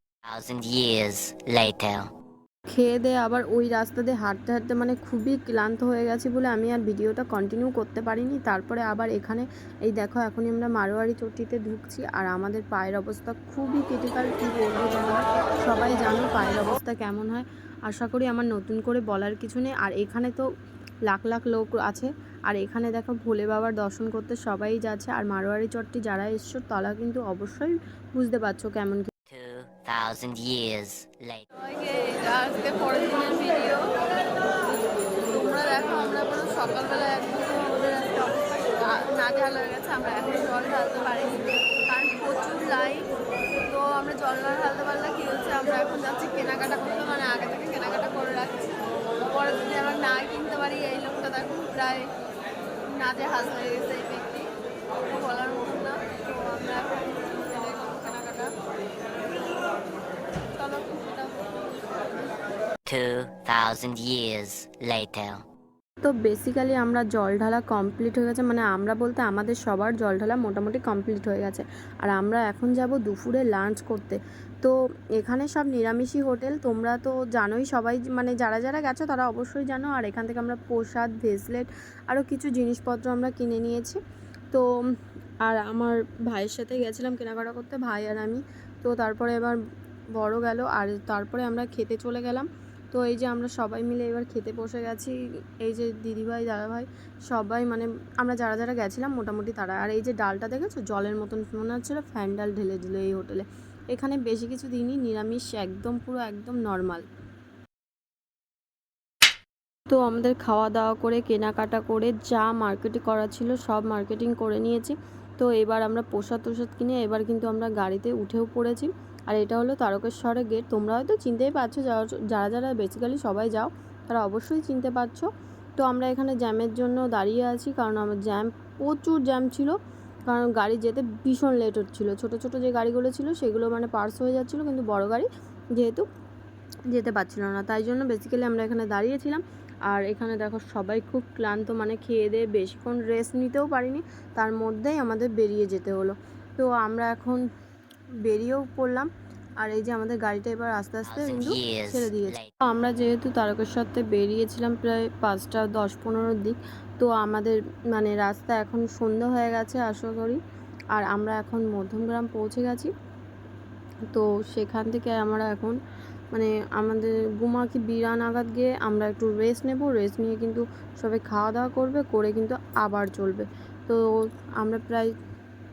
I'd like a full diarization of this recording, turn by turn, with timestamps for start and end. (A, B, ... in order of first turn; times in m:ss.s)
0:00.2-0:02.0 A
0:02.7-0:20.4 B
0:21.1-0:29.1 B
0:29.3-0:31.5 A
0:31.5-0:33.9 C
0:35.2-0:43.1 C
0:43.6-0:52.1 C
0:52.9-0:54.5 C
0:55.1-0:58.5 C
1:00.5-1:02.2 C
1:02.9-1:05.4 A
1:06.0-1:24.0 B
1:25.4-1:29.6 B
1:30.2-1:47.0 B
1:49.9-2:05.3 B
2:05.8-2:09.8 B
2:10.3-2:16.0 B
2:16.9-2:27.4 B
2:28.3-2:29.1 B
2:29.6-2:40.4 B
2:31.1-2:32.5 A
2:40.9-2:42.9 B
2:44.1-2:45.8 B
2:46.3-2:55.1 B